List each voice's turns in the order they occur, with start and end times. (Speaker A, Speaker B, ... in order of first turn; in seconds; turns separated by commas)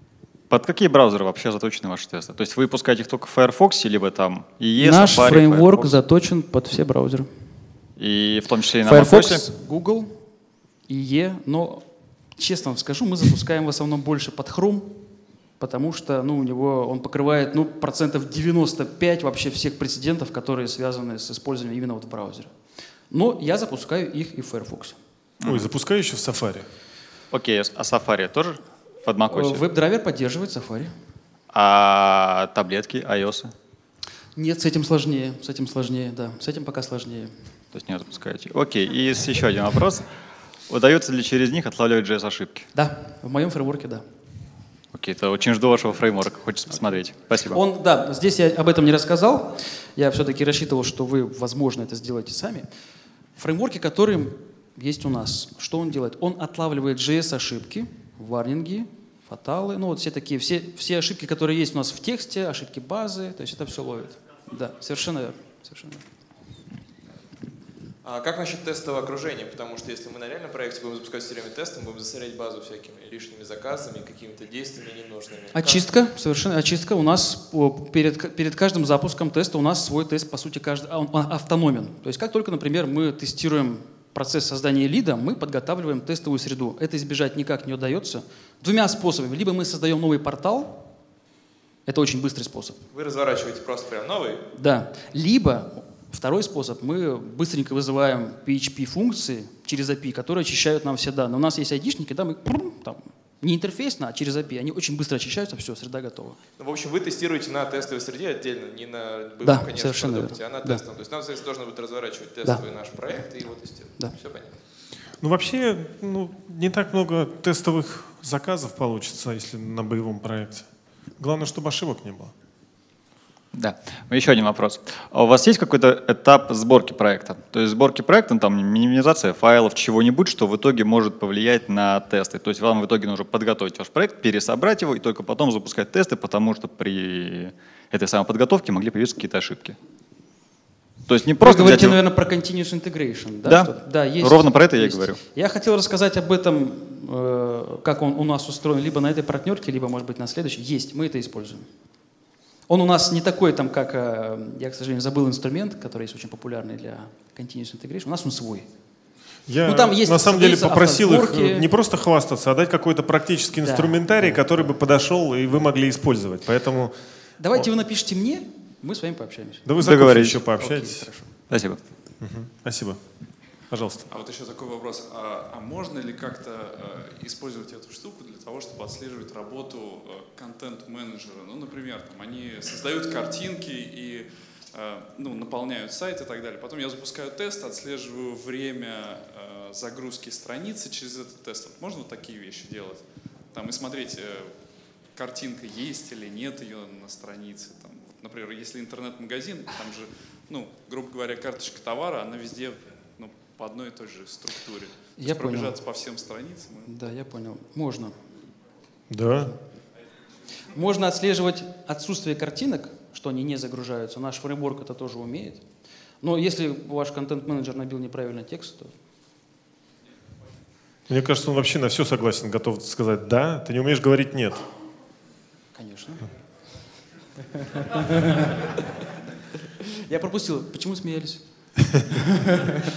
Speaker A: 0.5-5.9, Speaker B: 4.8-7.3, Speaker A: 8.0-9.5, Speaker B: 8.8-10.2, Speaker B: 10.9-11.9, Speaker B: 12.4-22.5, Speaker B: 23.1-25.0, Speaker C: 25.4-26.7, Speaker A: 27.3-29.6, Speaker B: 29.3-30.9, Speaker A: 31.5-33.5, Speaker B: 34.4-37.3, Speaker A: 37.7-40.1, Speaker A: 40.7-42.7, Speaker B: 42.7-44.0, Speaker A: 44.9-47.6, Speaker B: 47.5-52.7, Speaker B: 53.4-66.0, Speaker D: 68.0-75.9, Speaker B: 75.5-90.9, Speaker B: 91.9-92.8, Speaker D: 92.9-94.5, Speaker B: 94.5-106.4, Speaker D: 106.6-114.5, Speaker B: 109.4-110.8, Speaker C: 115.2-122.3, Speaker A: 123.5-139.8, Speaker A: 141.1-142.0, Speaker B: 141.4-151.7, Speaker A: 143.4-145.2, Speaker B: 152.7-158.7, Speaker C: 159.5-166.9, Speaker B: 159.6-161.7, Speaker B: 163.6-164.4, Speaker B: 167.4-171.3, Speaker C: 169.7-171.1, Speaker A: 169.8-170.4, Speaker A: 171.5-171.8, Speaker C: 172.2-173.0, Speaker C: 173.7-174.1, Speaker E: 174.1-206.9, Speaker B: 205.2-205.8, Speaker B: 206.9-208.2, Speaker C: 209.1-209.6, Speaker B: 210.7-215.6, Speaker B: 216.2-218.9, Speaker C: 221.1-224.7, Speaker B: 225.7-226.3, Speaker B: 227.5-228.7, Speaker B: 229.9-231.4, Speaker B: 232.1-232.8